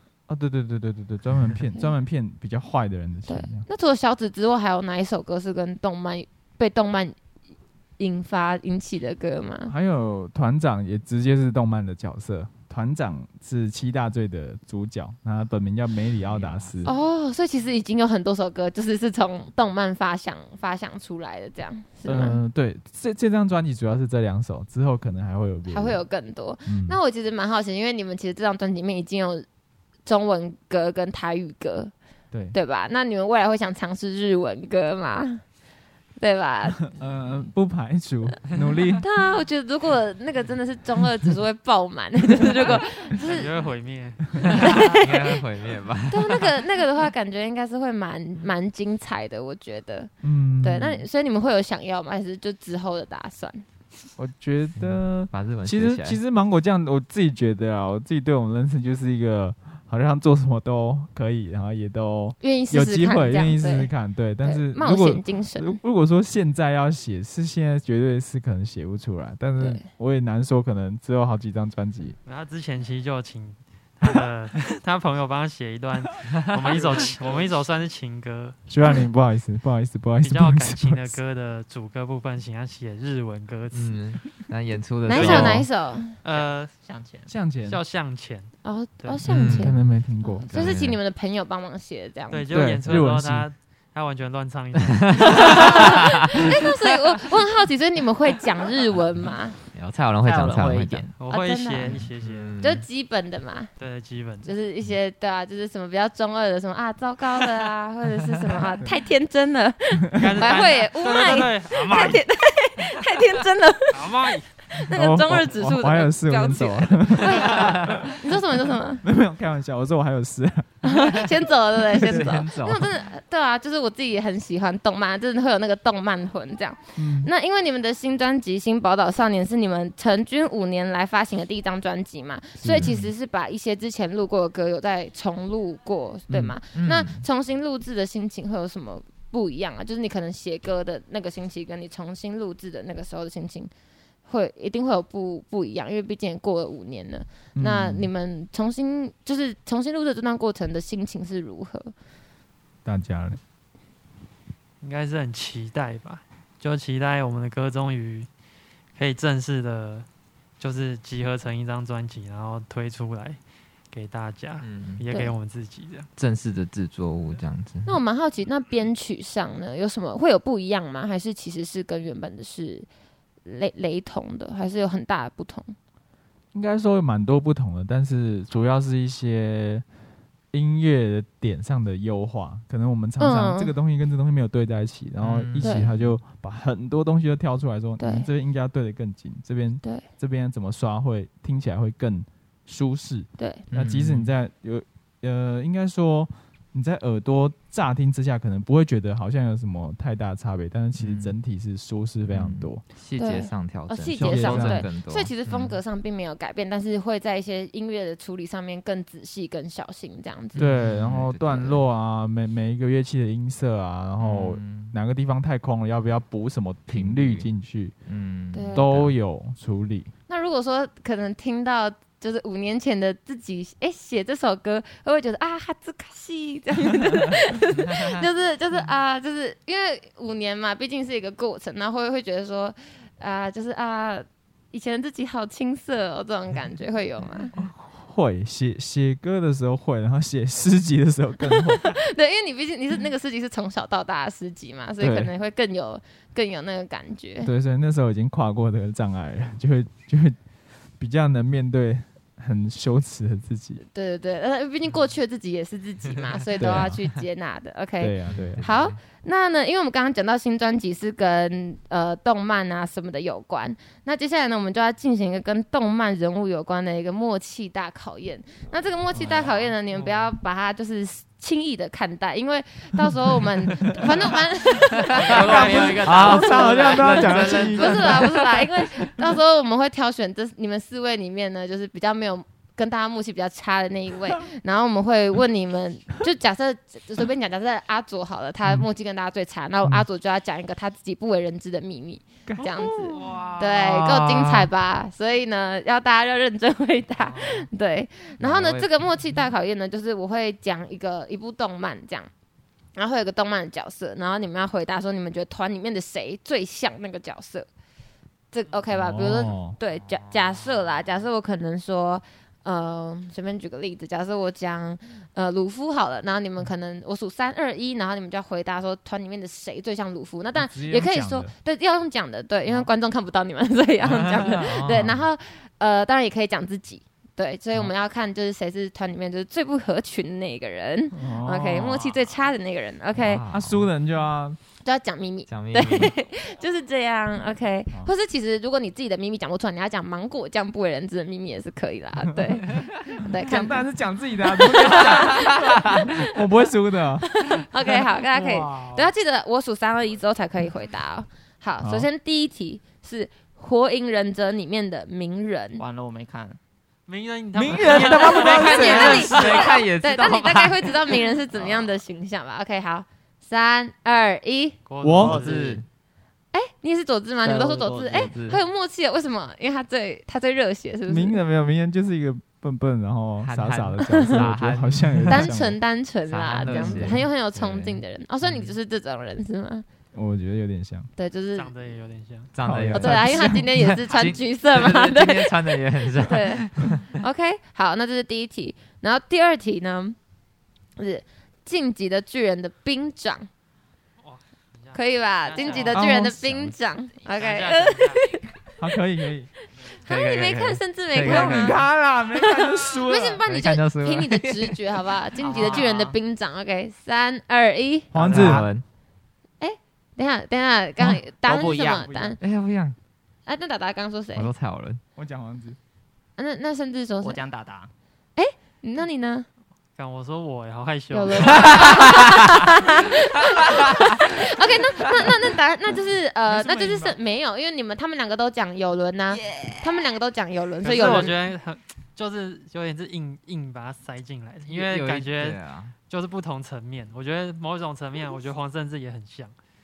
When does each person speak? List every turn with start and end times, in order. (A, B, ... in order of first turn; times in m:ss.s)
0:00.3-0:03.7 A
0:03.3-0:07.2 B
0:08.0-0:09.7 B
0:09.7-0:16.9 A
0:16.2-0:16.9 C
0:16.8-0:22.4 B
0:22.0-0:26.0 A
0:25.7-0:29.4 B
0:26.7-0:27.0 A
0:30.1-0:31.9 B
0:32.3-0:32.6 A
0:32.5-0:35.4 B
0:36.2-0:36.8 B
0:36.9-0:39.0 A
0:39.0-0:43.5 B
0:42.7-0:45.0 D
0:44.4-0:45.4 B
0:44.5-0:46.6 C
0:46.1-0:53.6 B
0:50.2-0:51.1 A
0:54.2-1:12.2 A
0:54.8-0:56.2 C
1:02.4-1:03.9 B
1:04.4-1:05.8 B
1:09.6-1:09.9 B
1:12.2-1:18.6 D
1:16.4-1:16.8 C
1:16.7-1:17.5 E
1:18.7-1:21.2 A
1:20.2-1:24.2 D
1:23.7-1:25.7 C
1:25.0-1:26.2 B
1:25.2-1:25.5 A
1:25.2-1:25.5 D
1:26.2-1:26.7 D
1:26.3-1:27.3 E
1:27.3-1:27.8 A
1:27.6-1:29.2 D
1:28.6-1:32.5 B
1:29.3-1:29.8 C
1:29.3-1:30.5 A
1:30.5-1:31.0 C
1:32.3-1:36.4 D
1:32.5-1:33.5 A
1:34.9-1:35.8 C
1:35.2-1:39.6 B
1:39.7-1:41.1 C
1:40.2-1:41.2 E
1:41.2-1:42.6 D
1:41.3-1:42.0 B
1:41.9-1:42.8 C
1:42.6-1:43.7 B
1:43.8-1:44.5 D
1:44.4-1:59.0 B
1:50.1-1:52.2 D
1:50.2-1:50.4 A
1:53.9-1:54.5 D
1:54.9-1:58.2 A
1:59.0-2:01.0 A
2:00.8-2:23.7 B
2:01.9-2:02.9 C
2:01.9-2:02.4 A
2:07.0-2:07.3 A
2:12.6-2:12.9 A
2:12.8-2:13.1 C
2:16.7-2:17.2 C
2:24.3-2:31.9 B
2:27.6-2:28.1 A
2:32.8-2:33.4 A
2:34.8-2:38.3 D
2:39.0-2:40.1 D
2:40.6-2:43.4 D
2:43.9-2:46.1 D
2:44.6-2:45.0 C
2:46.2-2:48.0 C
2:47.9-2:52.9 B
2:53.4-2:55.8 B
2:56.5-2:59.8 A
3:00.5-3:22.8 A
3:03.2-3:03.7 B
3:05.2-3:06.1 C
3:05.6-3:05.9 B
3:08.0-3:08.3 B
3:13.4-3:13.6 B
3:13.7-3:14.3 C
3:21.0-3:21.4 C
3:22.3-3:25.8 C
3:23.2-3:30.7 B
3:24.2-3:24.9 A
3:30.6-3:31.8 C
3:30.6-3:38.0 A
3:34.2-3:35.0 C
3:36.9-3:37.5 C
3:38.1-3:39.1 C
3:38.5-3:38.8 B
3:38.8-3:40.1 A
3:40.3-3:57.5 B
3:57.6-4:02.0 A
4:01.5-4:07.5 B
4:05.0-4:05.3 A
4:07.4-4:10.4 A
4:11.0-4:13.8 A
4:13.8-5:02.3 B
4:16.6-4:17.0 A
4:16.6-4:17.1 C
4:18.0-4:18.7 A
4:18.3-4:19.0 C
4:29.9-4:30.3 D
4:33.7-4:34.1 A
4:35.1-4:38.1 E
4:35.3-4:38.4 A
4:36.1-4:36.4 C
4:37.0-4:38.4 C
4:52.5-4:53.2 A
4:53.1-4:54.7 C
4:58.4-4:59.0 C
5:03.0-5:07.7 B
5:08.5-5:33.4 B
5:08.9-5:09.8 A
5:09.9-5:11.2 C
5:20.6-5:21.5 A
5:24.1-5:25.2 C
5:31.1-5:32.1 A
5:33.2-5:33.9 C
5:33.5-5:34.6 A
5:34.8-5:43.9 B
5:35.5-5:36.2 C
5:43.3-5:47.3 A
5:44.4-5:46.2 B
5:47.3-5:55.8 B
5:48.4-5:48.9 A
5:51.8-5:52.1 A
5:55.8-5:56.6 E
5:57.1-5:59.7 D
5:57.5-5:59.5 A
5:58.1-6:04.8 B
5:58.4-6:01.2 C
6:04.9-6:05.6 D
6:05.0-6:05.5 A
6:05.2-6:05.8 E
6:05.2-6:05.8 C
6:06.5-6:11.4 B
6:07.4-6:08.6 E
6:08.3-6:08.6 C
6:11.1-6:15.8 A
6:13.4-6:15.5 C
6:14.1-6:14.4 B
6:15.3-6:19.8 B
6:16.3-6:18.7 C
6:16.7-6:17.3 A
6:20.1-6:21.1 A
6:21.2-6:21.7 B
6:21.5-6:22.5 D
6:22.5-6:27.1 C
6:22.6-6:23.7 A
6:22.9-6:30.2 B
6:31.0-6:33.5 B
6:34.2-6:36.1 D
6:34.9-6:38.5 B
6:35.9-6:36.7 A
6:37.3-6:38.4 D
6:38.8-6:39.5 A
6:39.9-6:41.8 B
6:40.1-6:41.8 C
6:41.2-6:43.4 A
6:42.4-6:48.1 B
6:43.4-6:44.8 C
6:45.4-6:46.2 E
6:48.1-6:48.6 A
6:48.2-6:48.8 C
6:48.2-6:48.7 E
6:49.6-6:52.4 B
6:51.4-6:52.1 E
6:51.7-6:52.4 A
6:52.4-6:53.0 C
6:53.4-6:54.5 B
6:54.4-6:55.0 C
6:55.2-6:55.8 A
6:56.4-6:57.4 B
6:57.2-6:57.9 E
6:58.4-6:59.5 B
7:00.0-7:02.1 D
7:01.1-7:11.4 B
7:01.6-7:02.4 C
7:06.4-7:07.2 A
7:10.8-7:19.6 D
7:14.7-7:15.9 C